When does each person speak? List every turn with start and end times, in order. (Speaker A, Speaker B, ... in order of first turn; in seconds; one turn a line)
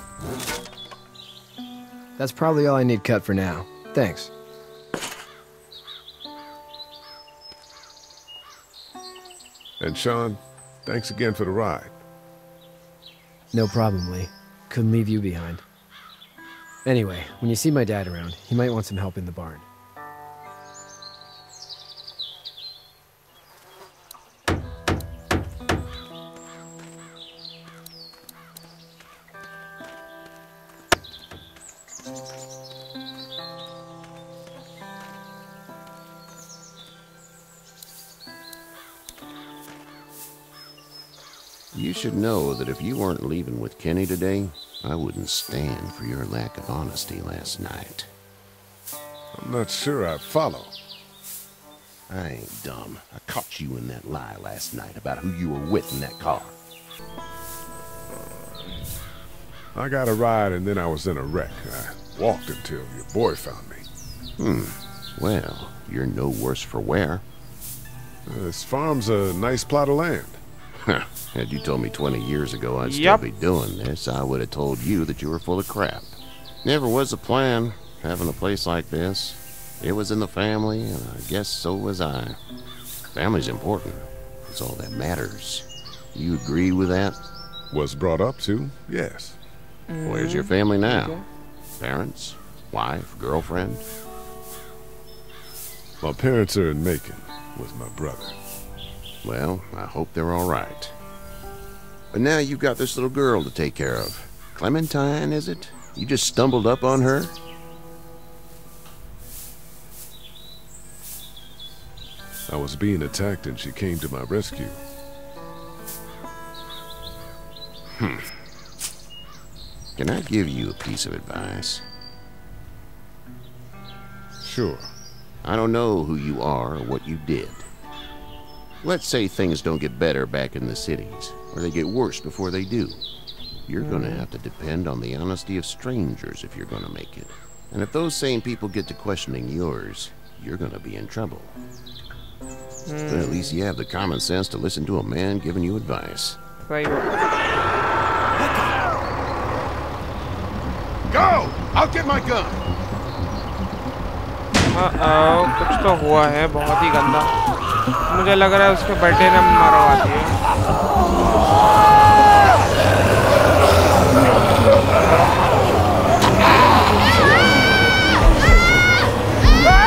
Speaker A: 2.2-4.3
Speaker B: 9.8-11.9
Speaker A: 13.5-15.6
Speaker A: 16.8-19.6
Speaker C: 41.7-48.1
Speaker B: 49.3-50.7
Speaker C: 52.1-56.5
Speaker B: 59.7-63.9
Speaker C: 64.4-67.2
Speaker B: 68.2-70.4
Speaker C: 70.8-82.4
Speaker D: 72.8-73.2
Speaker C: 83.1-87.2
Speaker B: 87.7-89.4
Speaker D: 89.9-91.2
Speaker C: 90.0-91.2
Speaker C: 91.8-93.8
Speaker B: 96.0-98.3
Speaker C: 99.2-100.9
Speaker C: 102.1-107.3
Speaker B: 112.5-114.8
Speaker C: 117.9-118.2
Speaker C: 120.0-121.8
Speaker B: 124.4-124.9
Speaker C: 125.4-127.7
Speaker C: 128.8-133.0
Speaker C: 133.7-141.6
Speaker D: 133.8-134.2
Speaker D: 142.9-143.5
Speaker C: 143.1-146.4
Speaker D: 146.7-147.3
Speaker E: 148.3-148.9
Speaker E: 151.1-152.6
Speaker D: 154.7-157.3
Speaker D: 158.1-160.4